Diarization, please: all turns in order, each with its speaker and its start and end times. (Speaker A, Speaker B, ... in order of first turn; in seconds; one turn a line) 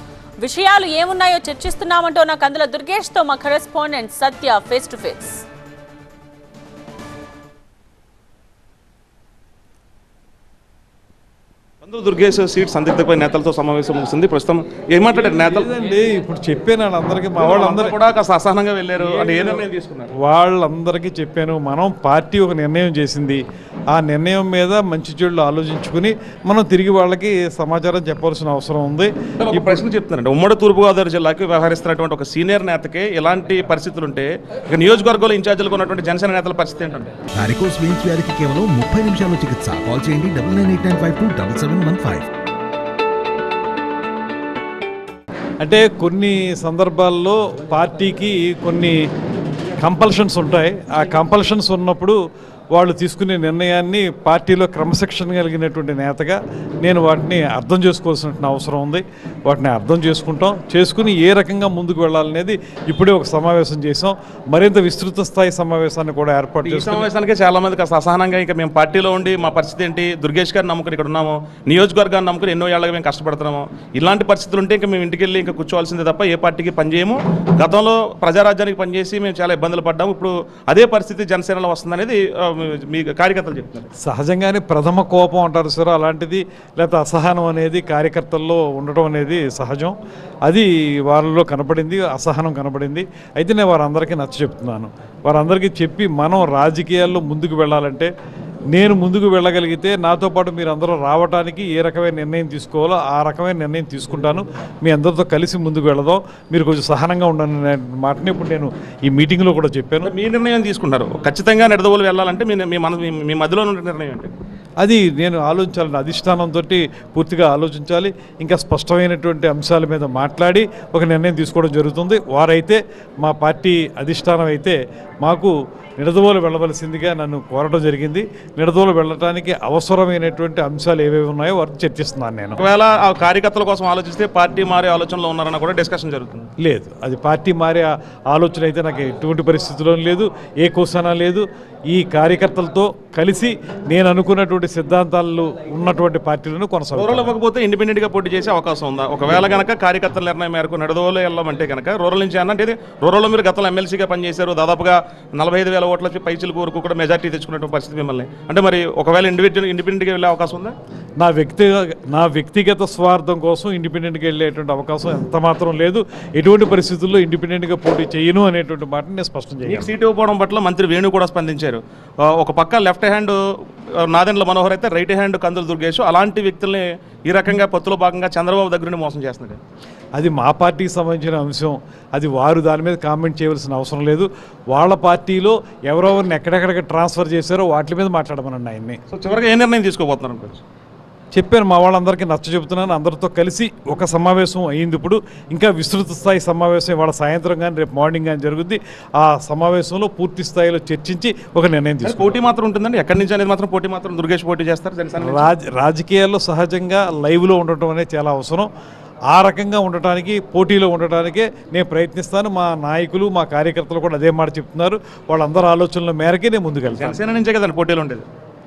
Speaker A: 0.4-5.4
Speaker B: 11.8-15.7
Speaker C: 15.2-18.0
Speaker B: 17.4-20.1
Speaker C: 19.0-19.6
Speaker C: 20.2-23.4
Speaker C: 23.9-29.9
Speaker B: 29.4-37.1
Speaker D: 37.3-42.3
Speaker C: 45.6-49.0
Speaker C: 49.8-52.2
Speaker C: 52.8-67.1
Speaker B: 66.6-83.9
Speaker C: 84.0-98.1
Speaker C: 98.7-110.1
Speaker B: 110.0-114.3
Speaker C: 114.8-132.6
Speaker B: 132.6-136.5
Speaker C: 136.6-147.3
Speaker B: 146.9-160.8
Speaker C: 161.2-169.9
Speaker B: 169.6-173.4
Speaker B: 174.0-179.6
Speaker C: 180.2-189.0
Speaker B: 189.1-190.6
Speaker C: 191.3-202.4
Speaker B: 202.0-205.5
Speaker C: 205.2-208.7
Speaker C: 209.3-217.2
Speaker B: 216.9-218.2